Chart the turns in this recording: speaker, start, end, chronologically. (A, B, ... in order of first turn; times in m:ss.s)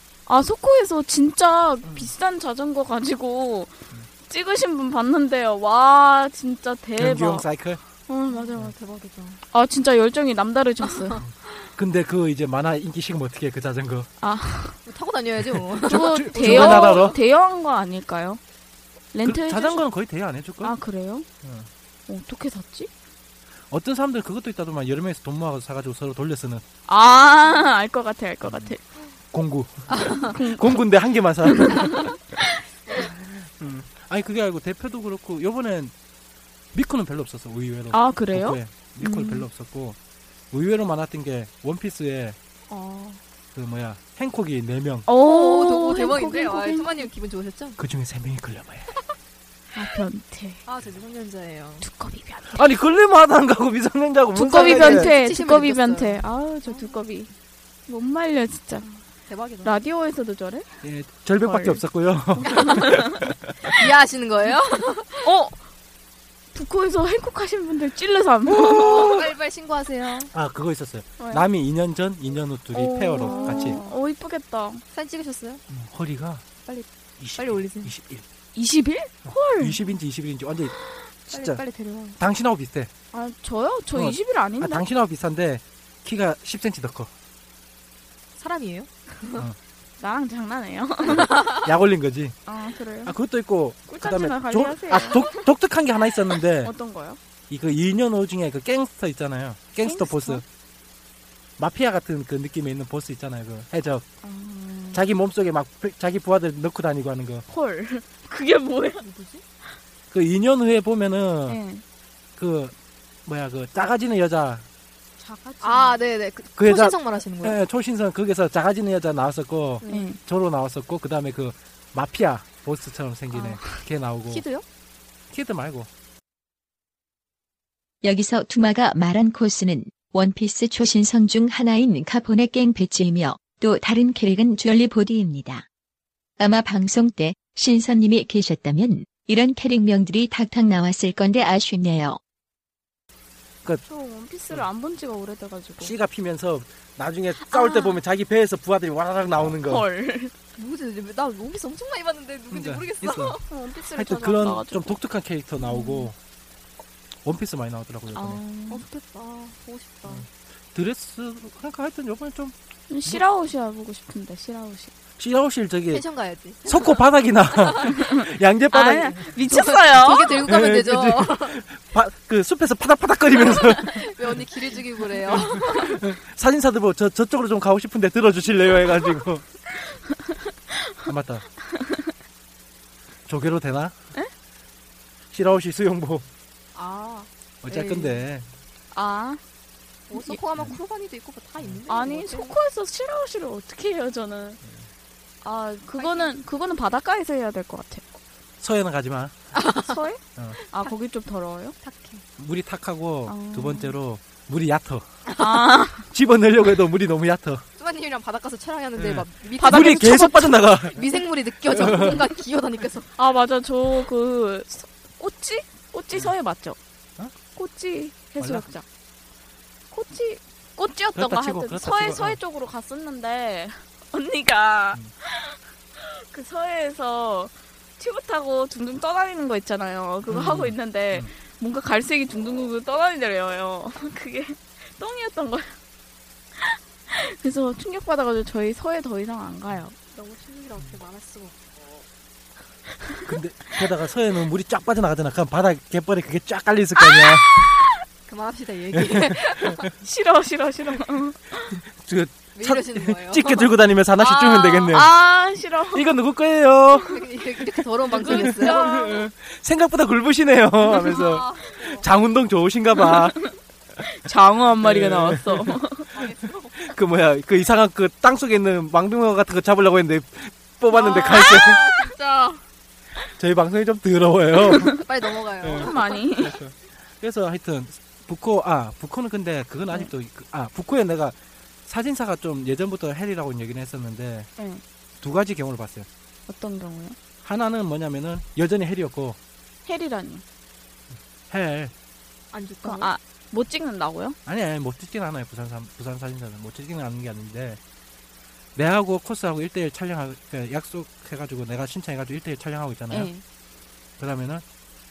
0:00.3-0:03.7 A
0:01.8-0:02.1 B
0:04.3-0:07.5 A
0:07.0-0:07.8 B
0:08.1-0:08.7 A
0:08.3-0:09.4 C
0:09.5-0:11.2 A
0:10.8-0:11.2 C
0:11.2-0:14.1 B
0:14.2-0:14.8 A
0:14.8-0:17.2 C
0:15.6-0:17.2 B
0:15.9-0:18.4 A
0:19.1-0:19.8 A
0:19.2-0:20.8 B
0:20.6-0:21.3 A
0:21.4-0:21.7 B
0:22.1-0:22.9 A
0:23.7-0:26.6 B
0:26.9-0:28.8 A
0:28.4-0:28.7 B
0:29.3-0:32.1 B
0:29.9-0:30.3 C
0:30.2-0:30.8 A
0:31.4-0:32.5 A
0:33.0-0:35.9 B
0:36.7-0:40.0 B
0:37.9-0:39.5 A
0:40.5-0:42.4 B
0:42.7-0:43.2 C
0:43.5-0:45.1 B
0:45.1-0:47.1 A
0:45.2-0:47.8 C
0:47.8-0:49.0 B
0:49.7-0:50.6 A
0:50.7-0:51.9 C
0:51.8-0:52.7 A
0:52.5-0:55.1 B
0:54.3-0:57.3 A
0:54.5-0:57.0 C
0:57.9-0:58.9 A
0:58.8-0:59.8 C
0:59.6-1:00.7 A
1:00.8-1:03.6 B
1:01.4-1:01.8 A
1:02.4-1:03.2 A
1:02.4-1:02.8 C
1:03.8-1:05.3 C
1:05.2-1:05.6 A
1:06.5-1:09.1 A
1:08.6-1:09.3 B
1:08.7-1:10.3 C
1:10.3-1:13.8 B
1:11.2-1:11.5 A
1:12.7-1:14.8 A
1:13.2-1:13.9 C
1:14.9-1:15.6 C
1:15.7-1:16.5 B
1:17.2-1:18.2 B
1:17.4-1:17.9 C
1:18.6-1:19.8 A
1:19.3-1:20.8 B
1:21.3-1:21.6 B
1:21.3-1:22.2 C
1:22.2-1:22.9 B
1:23.1-1:24.8 A
1:24.0-1:27.1 B
1:28.4-1:29.4 C
1:30.0-1:31.3 A
1:31.2-1:31.6 C
1:31.6-1:32.4 B
1:32.5-1:33.2 A
1:33.1-1:36.7 B
1:33.9-1:35.4 A
1:36.6-1:37.2 A
1:37.5-1:40.4 B
1:39.8-1:40.4 A
1:41.6-1:44.0 B
1:44.2-1:45.0 A
1:44.9-1:47.4 B
1:47.5-1:49.1 A
1:49.0-1:49.4 C
1:50.1-1:51.6 B
1:51.5-1:51.8 A
1:52.4-1:52.7 B
1:53.3-1:54.7 B
1:55.2-1:57.6 C
1:55.6-1:56.0 A
1:56.6-2:04.5 B
1:59.8-2:00.2 C
1:59.9-2:00.2 A
2:03.3-2:03.7 A
2:04.3-2:04.6 C
2:05.3-2:05.9 B
2:08.0-2:15.6 D
2:16.4-2:22.2 D
2:23.8-2:26.0 A
2:25.8-2:29.9 B
2:27.4-2:28.0 A
2:29.6-2:30.3 A
2:30.6-2:33.4 C
2:32.5-2:33.4 B
2:33.5-2:35.0 A
2:33.9-2:36.2 B
2:35.6-2:36.1 A
2:37.2-2:38.4 B
2:38.1-2:38.8 A
2:38.7-2:40.3 C
2:40.1-2:42.6 B
2:42.9-2:44.9 A
2:45.2-2:46.0 B
2:45.9-2:47.0 C
2:46.7-2:49.3 B
2:47.9-2:48.2 A
2:48.7-2:50.5 A
2:49.5-2:51.6 C
2:50.4-2:54.5 B
2:53.4-2:56.0 C
2:55.3-2:59.5 B
3:01.1-3:01.5 B
3:03.3-3:04.0 B
3:05.3-3:06.3 B
3:06.8-3:08.2 C
3:07.6-3:08.5 B
3:08.9-3:09.4 A
3:10.1-3:12.6 C
3:10.1-3:10.4 A
3:11.9-3:14.6 A
3:15.4-3:18.0 A
3:16.0-3:16.3 C
3:18.6-3:19.4 B
3:19.5-3:19.9 C
3:19.8-3:21.8 A
3:21.8-3:22.2 C
3:22.4-3:25.1 B
3:23.3-3:24.0 A
3:25.4-3:26.1 A
3:26.1-3:27.6 B
3:27.8-3:33.1 C
3:29.0-3:31.0 B
3:29.6-3:30.4 A
3:31.7-3:32.3 B
3:31.8-3:32.1 A
3:33.2-3:36.8 A
3:37.6-3:38.8 A
3:38.4-3:38.7 B
3:39.9-3:55.8 A
3:41.2-3:42.4 B
3:50.3-3:51.3 B
3:56.6-4:00.0 A
4:00.1-4:01.6 C
4:03.3-4:07.5 B
4:07.0-4:07.9 A
4:08.3-4:09.9 C
4:08.9-4:09.8 B
4:10.0-4:11.8 A
4:12.0-4:15.1 B
4:12.5-4:14.9 C
4:14.2-4:16.1 A
4:15.9-4:17.2 B
4:17.1-4:19.0 C
4:18.1-4:19.3 A
4:18.2-4:23.4 B
4:20.9-4:21.2 A
4:21.0-4:22.1 C
4:24.1-4:26.1 A
4:24.8-4:25.8 B
4:26.1-4:26.8 C
4:26.8-4:31.8 B
4:30.9-4:32.6 C
4:31.3-4:31.8 A
4:33.4-4:35.0 B
4:34.9-4:36.1 C
4:35.6-4:41.4 B
4:35.7-4:36.6 A
4:41.9-4:44.5 B
4:45.2-4:46.1 B
4:46.5-4:47.2 A
4:47.4-4:49.4 B
4:49.9-4:50.4 A
4:51.1-4:51.9 B
4:52.5-4:53.1 C
4:52.8-4:54.4 A
4:54.5-4:57.8 B
4:58.8-5:03.3 B
5:03.1-5:03.4 A
5:04.2-5:04.6 B